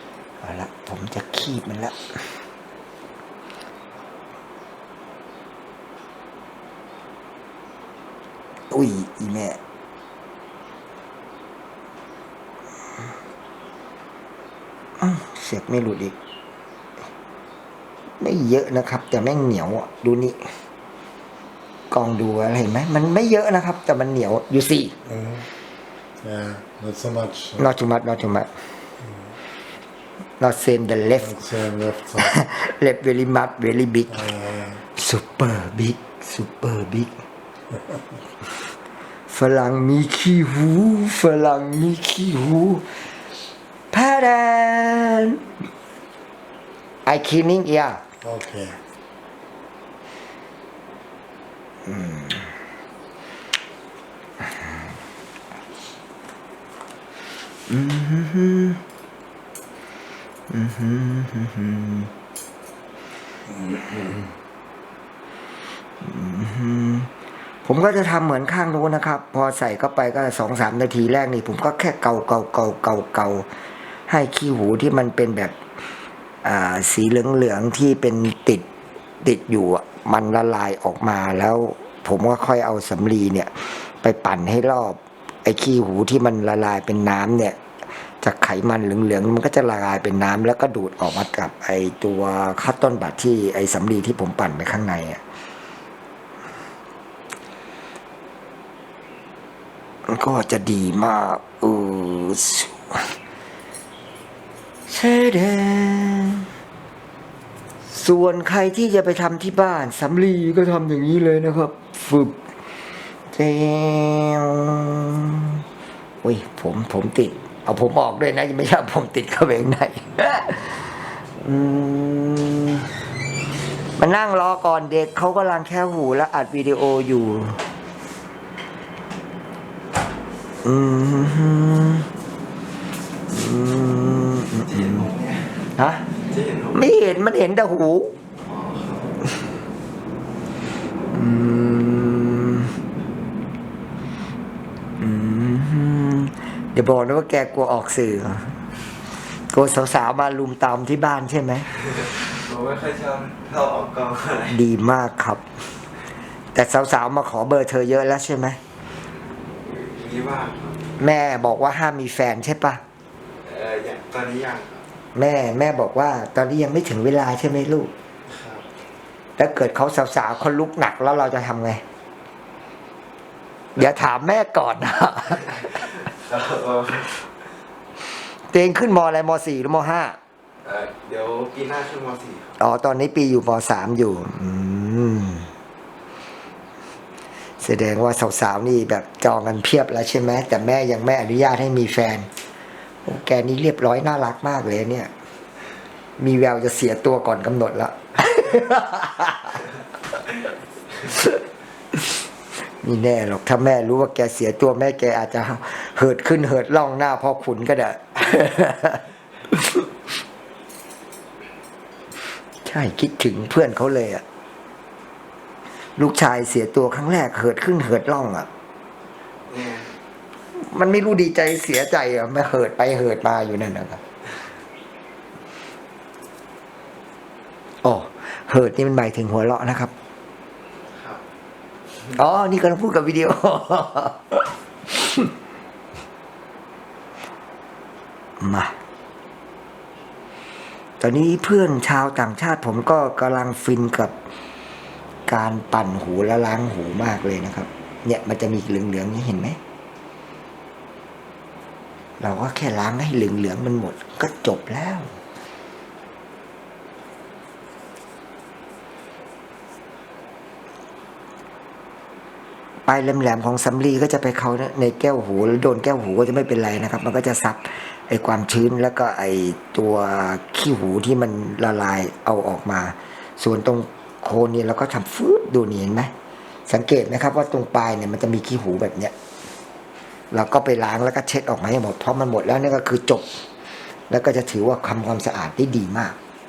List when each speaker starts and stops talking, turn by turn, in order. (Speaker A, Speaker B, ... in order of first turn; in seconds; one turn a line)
Speaker A: 0.4-2.4
Speaker A: 8.7-9.6
Speaker A: 15.0-16.1
Speaker A: 18.2-20.5
Speaker A: 21.9-24.9
Speaker B: 25.1-25.4
Speaker B: 26.2-27.6
Speaker A: 27.6-28.5
Speaker A: 30.4-31.4
Speaker B: 31.2-32.3
Speaker A: 32.2-34.3
Speaker B: 34.1-34.8
Speaker A: 34.9-37.2
Speaker A: 39.3-43.0
Speaker A: 43.9-45.5
Speaker A: 47.0-48.0
Speaker B: 48.2-48.8
Speaker A: 51.9-52.5
Speaker A: 57.7-58.8
Speaker A: 60.5-62.1
Speaker A: 66.0-67.1
Speaker A: 67.6-73.5
Speaker A: 74.1-75.5
Speaker A: 76.4-78.6
Speaker A: 79.2-95.2
Speaker A: 100.0-103.2
Speaker A: 104.9-106.5
Speaker A: 107.8-112.4
Speaker A: 113.3-115.6
Speaker A: 116.2-123.0
Speaker A: 124.0-127.6
Speaker A: 130.6-132.1
Speaker A: 133.3-135.1
Speaker C: 134.7-135.5
Speaker A: 135.7-136.1
Speaker C: 136.2-136.8
Speaker A: 136.7-138.1
Speaker C: 138.4-139.1
Speaker A: 141.1-142.7
Speaker A: 145.0-148.6
Speaker A: 149.3-151.7
Speaker C: 152.2-154.6
Speaker A: 154.5-155.4
Speaker A: 156.5-158.6
Speaker C: 159.6-160.8
Speaker A: 161.0-162.8
Speaker C: 163.4-164.8
Speaker A: 165.1-167.9
Speaker C: 168.3-168.6
Speaker A: 169.4-171.8
Speaker A: 173.8-175.8
Speaker C: 176.0-177.3
Speaker A: 178.5-180.2
Speaker C: 180.6-182.6
Speaker A: 182.6-185.5
Speaker A: 187.6-192.3
Speaker A: 193.0-195.1
Speaker A: 196.2-199.7
Speaker A: 202.7-209.8
Speaker A: 212.6-214.2
Speaker A: 216.0-218.5
Speaker C: 219.5-219.9
Speaker A: 220.5-224.0
Speaker A: 227.8-229.9
Speaker C: 230.9-231.2
Speaker A: 232.1-235.3
Speaker A: 238.4-238.7
Speaker A: 241.0-244.1
Speaker A: 245.3-249.6
Speaker A: 252.2-255.1
Speaker A: 262.9-276.1
Speaker A: 276.7-279.1
Speaker A: 280.3-283.4
Speaker A: 284.1-286.1